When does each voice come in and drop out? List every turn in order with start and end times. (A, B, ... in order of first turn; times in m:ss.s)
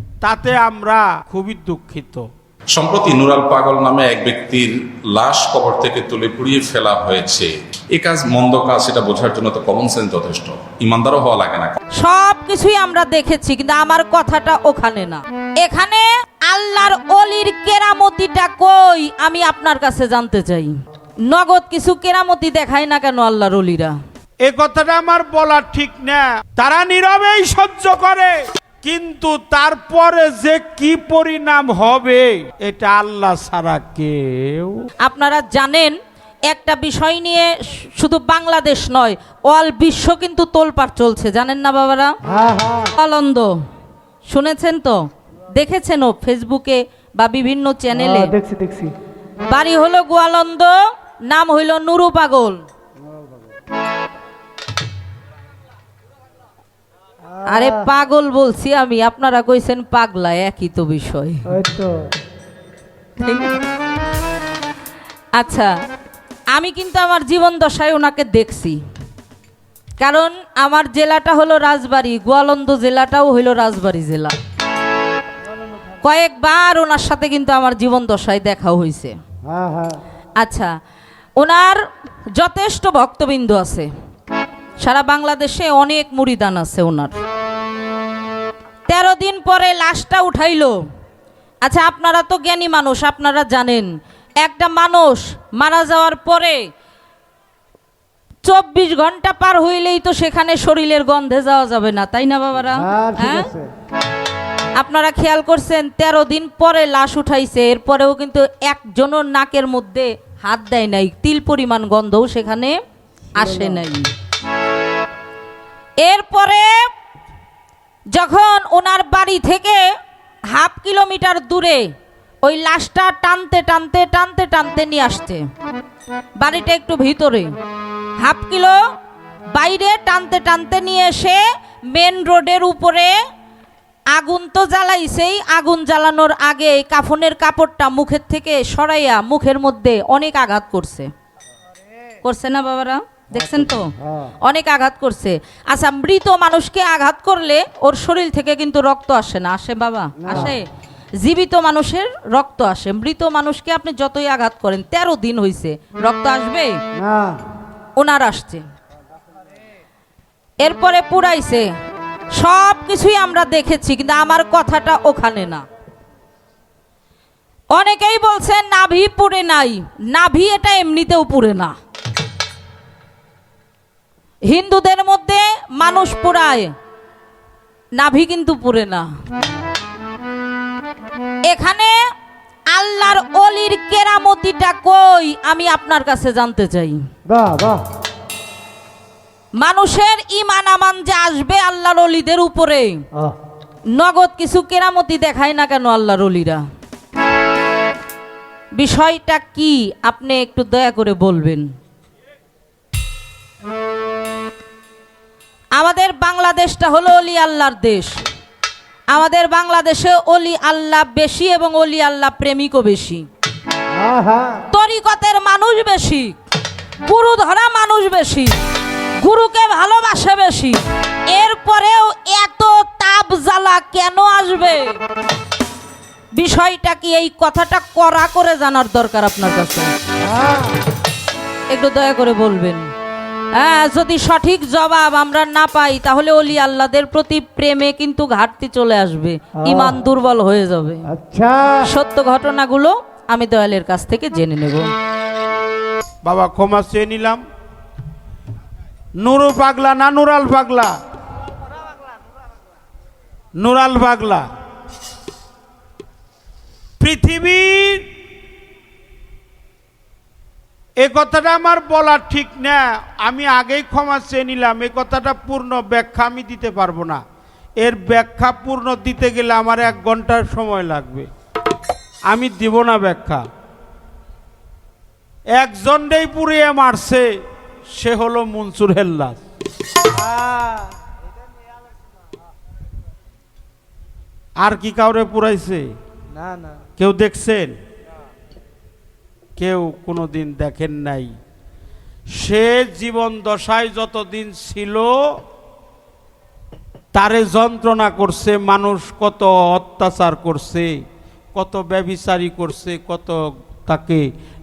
0:00.2-0:02.2 A
0:02.7-0:11.8 B
0:12.0-0:20.7 C
0:21.3-0:23.9 C
0:24.4-0:34.7 A
0:35.0-0:35.9 C
0:36.5-0:42.1 C
0:42.3-0:42.9 D
0:43.0-0:43.5 C
0:44.3-0:45.0 C
0:45.5-0:48.3 C
0:48.1-0:48.9 D
0:49.5-0:50.7 C
0:51.3-0:52.6 C
0:57.4-1:01.6 C
1:01.5-1:02.0 D
1:03.2-1:03.6 C
1:05.3-1:05.7 C
1:06.5-1:08.8 C
1:10.0-1:14.4 C
1:16.0-1:19.1 C
1:19.4-1:20.0 D
1:20.4-1:20.7 C
1:21.4-1:21.8 C
1:22.4-1:23.9 C
1:24.8-1:27.1 C
1:28.9-1:30.7 C
1:31.6-1:33.9 C
1:34.4-1:36.6 C
1:38.4-1:43.5 C
1:42.7-1:43.7 D
1:44.8-1:52.8 C
1:53.3-1:54.1 C
1:53.4-1:53.8 D
1:56.0-1:56.7 C
1:58.1-1:59.8 C
2:00.5-2:01.8 C
2:02.4-2:05.4 C
2:06.4-2:07.5 C
2:08.2-2:08.8 C
2:09.5-2:13.1 C
2:14.1-2:21.1 C
2:22.2-2:23.9 C
2:23.3-2:24.3 D
2:24.4-2:30.6 C
2:30.2-2:30.5 D
2:31.2-2:36.8 C
2:36.9-2:37.4 D
2:38.0-2:38.6 C
2:40.6-2:41.6 C
2:42.4-2:45.6 C
2:47.7-2:51.7 C
2:54.5-2:56.7 C
2:58.0-2:59.1 C
3:01.5-3:01.9 C
3:02.7-3:07.0 C
3:07.3-3:07.8 D
3:09.6-3:13.0 C
3:13.9-3:16.6 C
3:18.8-3:21.6 C
3:25.8-3:28.1 C
3:29.1-3:33.2 C
3:33.9-3:34.6 D
3:34.7-3:36.3 C
3:37.0-3:38.6 C
3:39.2-3:40.8 C
3:41.3-3:45.0 C
3:46.3-3:49.9 C
3:50.2-3:50.8 D
3:51.7-3:52.8 C
3:53.6-4:01.0 C
3:59.6-3:59.9 D
4:01.1-4:01.8 D
4:01.8-4:04.9 C
4:06.2-4:07.4 A
4:09.2-4:10.9 A
4:13.6-4:14.4 A
4:17.0-4:18.0 A
4:21.0-4:27.2 A
4:27.8-4:31.3 A
4:32.3-4:33.4 A
4:35.6-4:37.2 A
4:38.0-4:39.4 A
4:40.1-4:40.9 D
4:44.6-4:45.8 A
4:47.0-4:47.7 A
4:49.6-4:51.3 A
4:52.4-4:55.1 A
4:57.1-5:00.9 A
5:01.5-5:03.3 A
5:03.8-5:04.2 A